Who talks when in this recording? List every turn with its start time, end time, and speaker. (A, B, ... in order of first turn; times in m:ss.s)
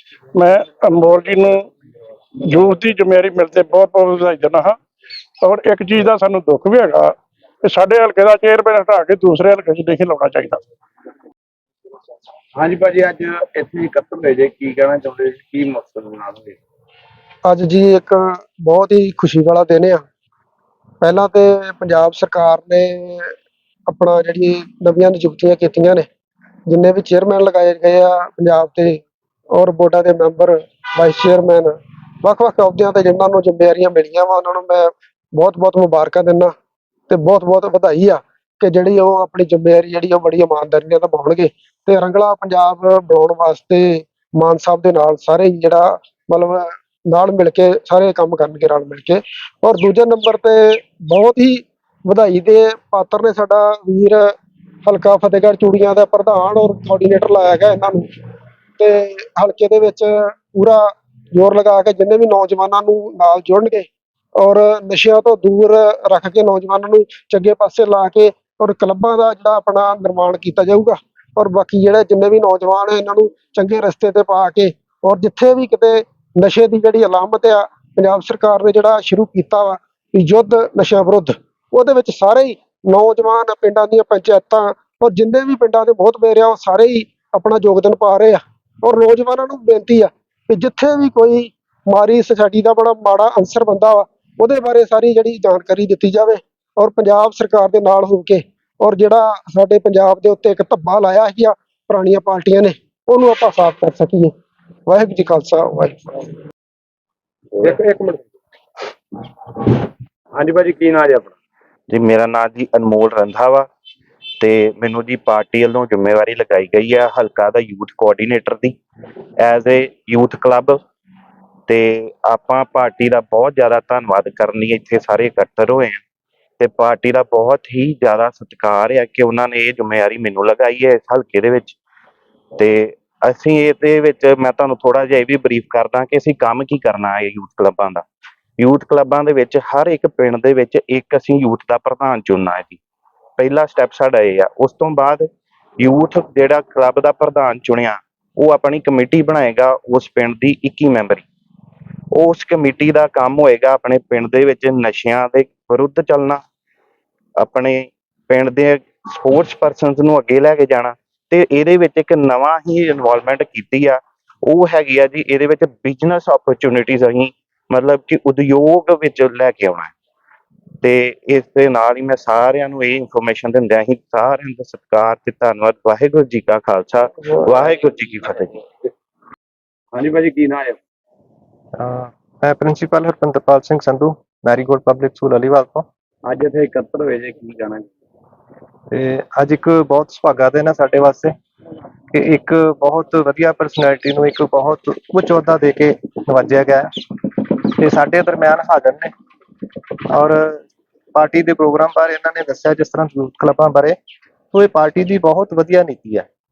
0:00.3-0:01.7 A
0:02.4-0:04.8 A
0:05.4-0:10.6 A
0:12.6-0:16.6 B
0:17.4-0:20.0 C
0:21.0-0:23.3 C
0:23.9-0:26.0 C
0:26.7-0:29.0 C
0:29.5-0:36.5 C
0:37.1-0:54.3 C
0:54.8-0:58.1 C
0:58.8-1:44.3 C
1:44.9-1:46.2 C
1:47.6-1:48.0 B
1:47.8-1:48.2 C
1:50.3-1:51.4 B
1:51.9-1:53.7 D
1:54.4-1:58.8 D
1:59.4-2:00.8 D
2:01.7-2:06.0 D
2:06.6-2:11.8 D
2:12.6-2:18.0 D
2:18.6-2:22.8 D
2:23.4-2:25.2 D
2:25.8-2:31.2 D
2:32.1-2:36.4 D
2:37.4-2:49.9 D
2:50.8-2:58.5 D
2:59.9-3:00.8 B
3:01.8-3:05.9 E
3:06.2-3:07.9 B
3:08.9-3:11.3 E
3:12.1-3:19.1 E
3:20.1-3:20.6 E
3:21.1-3:24.0 E
3:24.5-3:26.3 E